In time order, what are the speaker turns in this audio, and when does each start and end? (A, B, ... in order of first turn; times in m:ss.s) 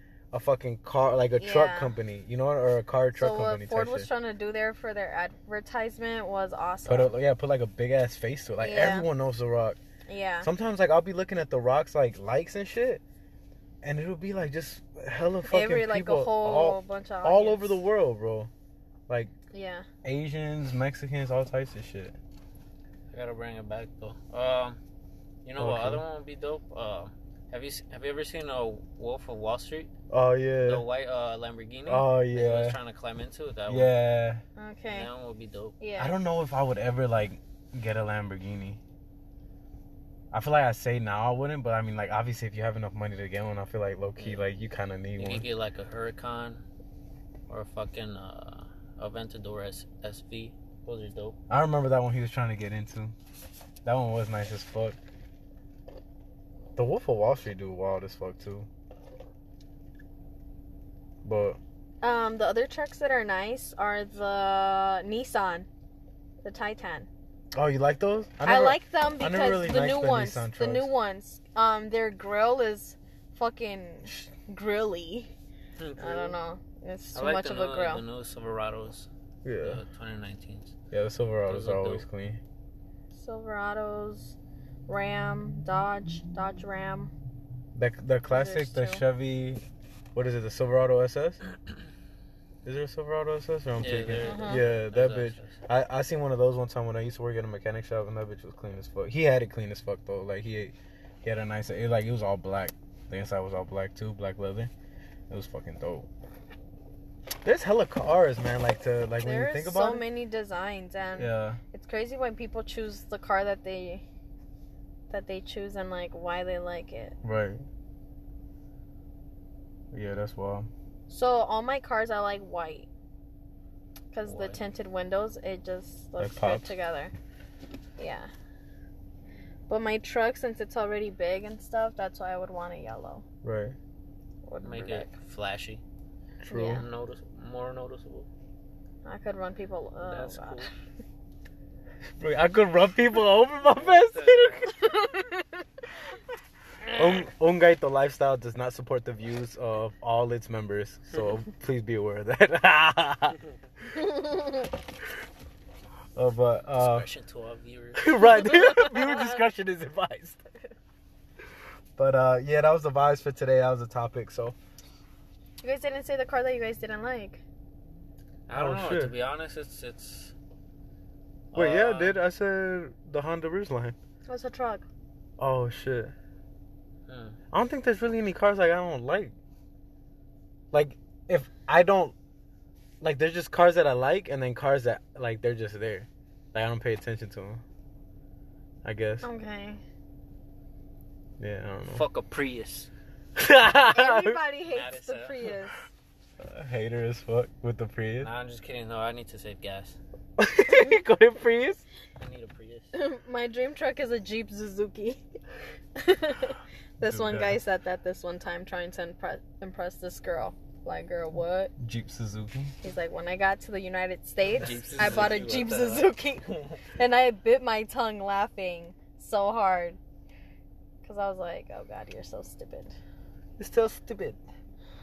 0:00.3-0:04.1 A
0:01.4-0:01.9 B
0:03.1-0:07.1 B
0:06.8-0:09.8 A
0:08.6-0:09.1 B
0:10.0-0:10.5 B
0:10.4-0:13.0 A
0:13.8-0:18.5 A
0:15.4-0:17.8 B
0:19.1-0:19.3 A
0:19.5-0:19.8 B
0:20.0-0:22.2 A
0:23.1-0:24.8 C
0:25.4-0:29.9 C
0:25.6-0:26.0 A
0:30.1-0:30.8 A
0:30.6-0:33.9 C
0:31.8-0:32.8 A
0:33.7-0:34.4 A
0:34.6-0:35.1 B
0:34.9-0:35.8 C
0:35.8-0:36.2 B
0:36.0-0:38.8 A
0:40.3-0:45.5 A
0:44.2-0:44.4 C
0:45.2-0:46.6 C
0:47.5-0:51.4 C
0:51.5-0:53.1 A
0:53.8-0:55.0 A
0:56.8-0:58.7 A
1:01.2-1:01.6 A
1:02.0-1:05.7 B
1:06.4-1:07.1 B
1:07.5-1:10.9 A
1:08.4-1:15.3 B
1:15.8-1:16.4 C
1:16.0-1:18.0 B
1:17.1-1:19.1 C
1:19.4-1:19.8 A
1:19.6-1:20.7 C
1:20.9-1:22.4 A
1:21.4-1:22.0 C
1:23.1-1:27.1 B
1:27.7-1:31.4 A
1:28.3-1:29.0 B
1:32.6-1:44.7 A
1:33.8-1:35.6 C
1:34.2-1:34.6 B
1:45.3-1:46.1 A
1:47.4-1:50.0 A
1:49.2-1:54.0 B
1:51.2-1:51.6 A
1:55.1-1:57.1 B
1:57.2-1:57.6 A
1:59.9-2:00.7 A
2:01.1-2:02.9 B
2:04.1-2:07.1 B
2:04.2-2:04.6 C
2:06.2-2:06.7 A
2:08.0-2:08.3 B
2:09.7-2:13.2 B
2:13.4-2:13.8 A
2:14.4-2:15.1 B
2:14.6-2:15.8 C
2:16.4-2:16.8 B
2:16.4-2:16.8 A
2:16.6-2:18.3 C
2:19.0-2:20.7 B
2:20.0-2:20.7 C
2:22.2-2:24.9 A
2:23.7-2:24.7 C
2:24.7-2:25.4 B
2:26.9-2:27.2 C
2:26.9-2:33.4 A
2:33.9-2:34.7 B
2:36.2-2:37.1 A
2:36.8-2:38.1 C
2:38.0-2:40.4 A
2:38.4-2:39.4 B
2:42.0-2:44.5 A
2:45.6-2:47.4 B
2:48.5-2:50.3 C
2:48.5-2:49.1 A
2:51.5-2:52.2 C
2:51.5-2:54.0 A
2:54.2-2:54.8 B
2:55.4-2:56.1 A
2:57.1-2:57.4 C
2:57.5-2:59.3 A
3:00.7-3:02.1 A
3:03.0-3:07.6 A
3:08.8-3:09.3 A
3:09.2-3:09.8 B
3:11.4-3:12.0 A
3:11.9-3:12.9 C
3:13.4-3:14.4 A
3:13.8-3:15.9 B
3:14.6-3:15.4 C
3:16.4-3:18.3 A
3:18.2-3:20.0 C
3:20.4-3:21.8 A
3:20.7-3:21.0 B
3:22.2-3:22.9 C
3:22.9-3:25.2 B
3:26.0-3:31.7 B
3:27.0-3:27.6 A
3:31.8-3:32.7 A
3:32.8-3:40.0 B
3:34.5-3:36.8 C
3:35.0-3:35.4 A
3:41.0-3:43.0 B
3:43.6-3:44.4 A